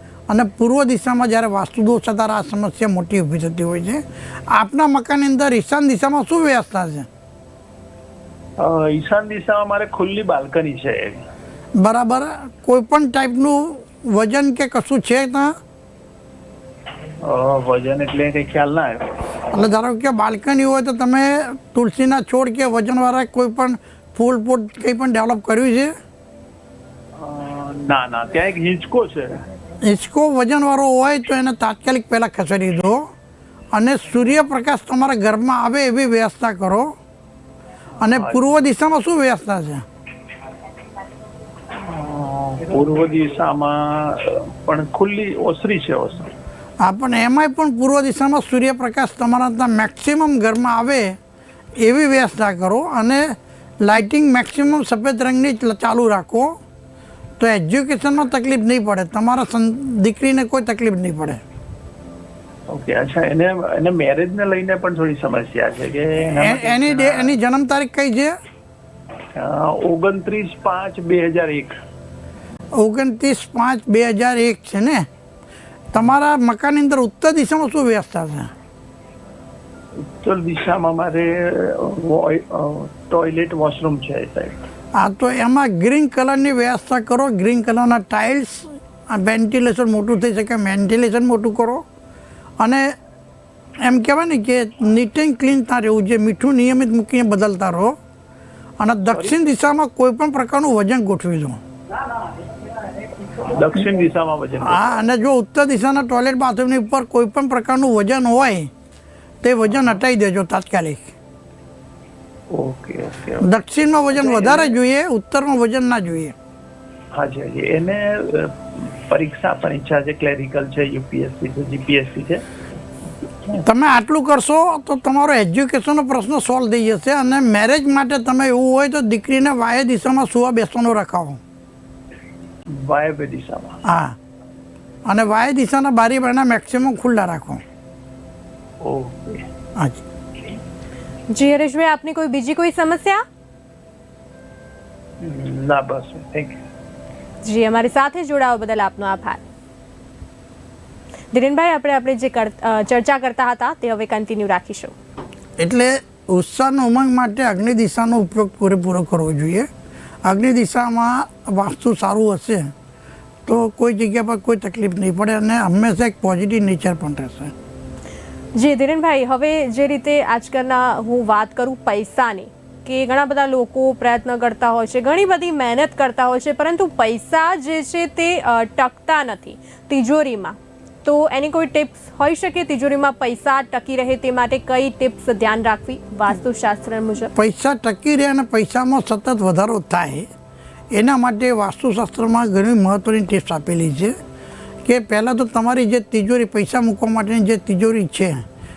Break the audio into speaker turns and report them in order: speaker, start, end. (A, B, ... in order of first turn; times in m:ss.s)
0:00.3-0:07.1 A
0:08.6-0:11.2 B
0:11.8-0:15.5 A
0:17.2-0:19.3 B
0:19.5-0:25.9 A
0:27.2-0:29.4 B
0:29.8-0:33.0 A
0:33.7-0:36.9 A
0:38.0-0:39.8 A
0:38.0-0:38.5 B
0:41.7-0:46.3 B
0:46.8-0:51.2 A
0:51.8-0:56.5 A
0:57.4-1:01.4 A
1:02.7-1:07.4 B
1:06.4-1:08.3 A
1:09.3-1:11.8 B
1:12.8-1:15.1 A
1:15.9-1:18.5 A
1:20.0-1:24.6 B
1:25.0-1:31.8 A
1:32.6-1:32.9 A
1:33.8-1:38.0 A
1:38.8-1:41.6 A
1:43.0-1:45.0 B
1:44.6-1:48.7 A
1:49.4-1:51.1 A
1:52.5-1:53.5 B
1:53.4-1:56.3 A
1:54.1-1:54.8 B
1:57.1-2:02.4 B
2:03.6-2:11.4 A
2:12.7-2:13.8 B
2:13.8-2:14.2 A
2:15.1-2:17.6 A
2:18.8-2:19.4 B
2:21.3-2:23.2 C
2:25.2-2:26.6 B
2:27.4-2:29.4 C
2:31.3-2:34.9 C
2:35.6-2:39.7 A
2:40.2-2:42.7 A
2:43.5-2:47.5 A
2:48.5-3:07.3 C
3:07.3-3:10.3 A
3:10.9-3:14.1 A
3:14.8-3:18.4 A